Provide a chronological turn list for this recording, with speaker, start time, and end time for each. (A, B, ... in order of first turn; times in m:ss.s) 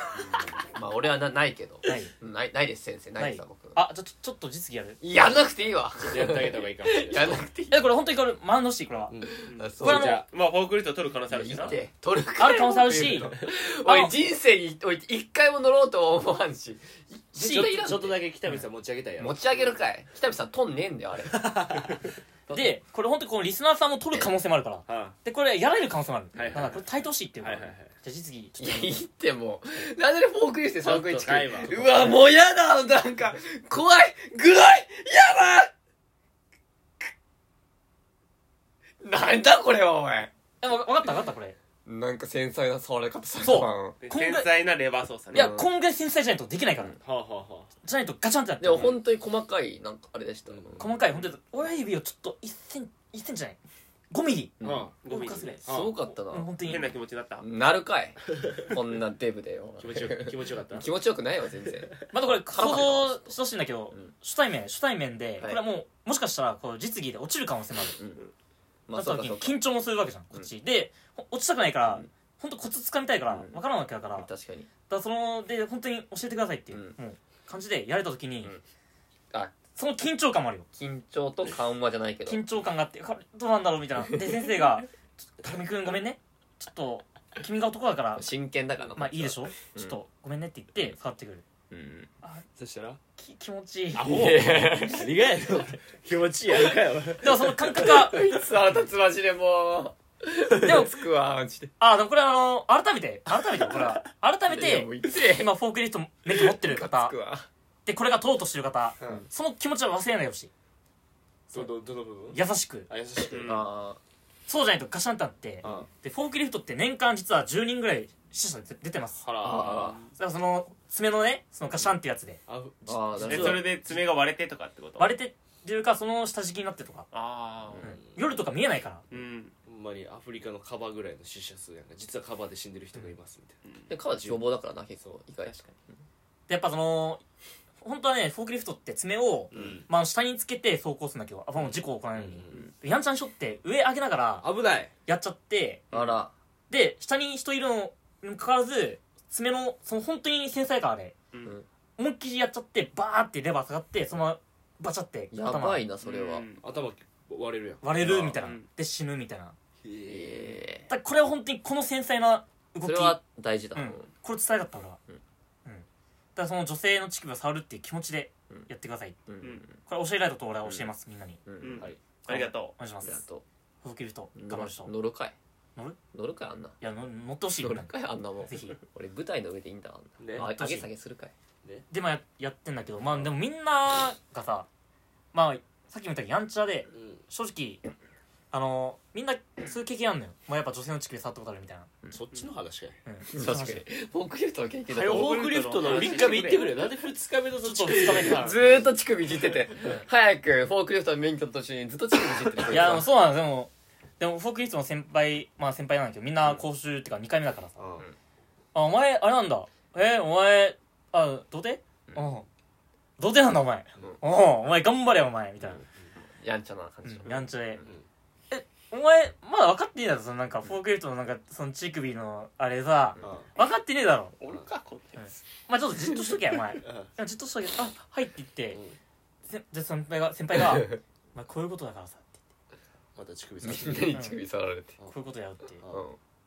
0:00.1-0:03.8 A
0:01.8-0:02.1 B
0:03.2-0:05.0 B
0:05.0-0:07.9 A
0:06.0-0:07.4 C
0:07.7-0:09.2 B
0:09.1-0:10.3 C
0:09.4-0:10.2 A
0:09.8-0:10.2 B
0:10.3-0:11.8 D
0:11.3-0:18.2 A
0:12.4-0:14.2 B
0:17.4-0:17.8 B
0:17.4-0:19.4 C
0:19.2-0:21.6 A
0:21.3-0:22.1 C
0:22.5-0:22.7 A
0:22.5-0:28.9 B
0:24.9-0:25.2 C
0:26.3-0:26.9 C
0:27.4-0:27.9 C
0:28.6-0:35.7 A
0:30.8-0:32.1 C
0:39.0-0:40.3 A
0:40.6-0:41.6 B
0:41.9-0:44.0 A
0:43.4-0:44.5 B
0:44.0-0:45.5 D
0:45.3-0:47.0 B
0:45.3-0:45.7 A
0:47.0-0:47.7 C
0:47.8-0:49.0 B
0:48.6-0:51.0 A
0:50.5-0:51.3 C
0:50.8-0:53.6 B
0:54.1-0:56.9 B
0:54.6-0:54.9 A
0:54.6-0:54.9 C
0:55.0-0:55.6 D
0:55.6-0:56.8 A
0:55.6-0:56.0 C
0:56.6-0:57.4 D
0:57.4-1:03.4 A
0:58.4-0:58.8 C
0:59.8-1:00.9 C
1:02.1-1:08.0 B
1:08.0-1:08.2 A
1:08.9-1:09.6 A
1:09.0-1:14.3 B
1:13.3-1:13.6 A
1:14.1-1:14.7 A
1:14.9-1:18.5 B
1:16.7-1:17.0 A
1:19.3-1:19.6 A
1:19.8-1:20.7 B
1:20.8-1:22.4 A
1:22.3-1:28.3 B
1:24.0-1:24.3 A
1:28.2-1:30.0 A
1:29.0-1:31.4 B
1:31.7-1:32.1 A
1:32.6-1:33.0 C
1:33.2-1:35.0 B
1:34.0-1:38.0 C
1:34.0-1:35.1 A
1:37.2-1:38.3 B
1:37.8-1:41.7 A
1:40.6-1:40.9 B
1:41.8-1:47.2 B
1:44.5-1:45.5 A
1:46.3-1:47.5 A
1:47.9-1:50.5 B
1:49.0-1:49.3 C
1:51.5-1:53.6 C
1:52.3-1:52.9 B
1:53.3-1:53.7 D
1:53.4-1:54.0 A
1:54.5-1:59.2 B
1:55.6-1:55.9 C
1:59.2-2:00.0 C
1:59.4-2:00.0 A
2:00.2-2:02.4 B
2:02.5-2:03.7 C
2:02.9-2:03.7 A
2:03.2-2:05.1 D
2:05.0-2:07.1 B
2:07.1-2:07.9 D
2:07.8-2:09.1 B
2:07.8-2:08.2 C
2:09.1-2:09.5 D
2:09.7-2:13.6 C
2:13.9-2:15.8 A
2:14.2-2:14.4 C
2:16.5-2:17.2 B
2:17.8-2:24.5 B
2:19.5-2:19.9 C
2:19.5-2:19.8 A
2:22.2-2:22.6 C
2:24.4-2:24.9 C
2:25.1-2:25.9 B
2:25.9-2:26.3 A
2:26.7-2:31.2 B
2:32.0-2:35.8 B
2:35.3-2:36.5 A
2:36.0-2:36.6 D
2:36.6-2:38.4 C
2:37.8-2:39.6 B
2:38.2-2:38.6 D
2:39.8-2:40.6 C
2:40.1-2:40.9 A
2:40.9-2:43.2 B
2:42.8-2:44.1 A
2:43.7-2:45.0 B
2:45.6-2:49.2 B
2:49.3-2:49.8 A
2:49.8-2:51.4 B
2:51.5-2:51.9 A
2:51.6-2:52.7 D
2:52.2-2:53.2 B
2:53.0-2:53.4 A
2:53.8-2:54.9 B
2:54.4-2:55.4 A
2:56.1-2:56.8 A
2:56.8-2:57.9 B
2:57.6-3:01.3 A
2:58.4-2:58.8 B
3:00.2-3:00.5 C
3:00.3-3:00.9 B
3:01.9-3:04.7 B
3:05.3-3:07.8 B
3:06.9-3:07.2 C
3:08.5-3:12.0 B
3:12.1-3:13.0 C
3:13.1-3:13.9 B
3:13.3-3:16.2 A
3:14.9-3:18.9 C
3:15.0-3:16.8 D
3:17.6-3:18.6 B
3:18.0-3:23.1 A
3:22.7-3:27.8 B
3:22.7-3:23.0 C
3:27.8-3:28.1 C
3:28.7-3:32.5 B
3:33.2-3:35.8 B
3:36.4-3:37.9 A
3:37.0-3:37.8 B
3:38.5-3:44.4 B
3:43.2-3:43.5 C
3:44.4-3:45.3 D
3:45.2-3:48.8 B
3:46.8-3:47.1 C
3:49.5-3:52.4 B
3:50.6-3:50.9 A
3:53.2-3:54.2 C
3:53.6-3:55.0 A
3:54.1-3:54.4 B
3:55.1-3:55.8 B
3:55.9-3:56.2 A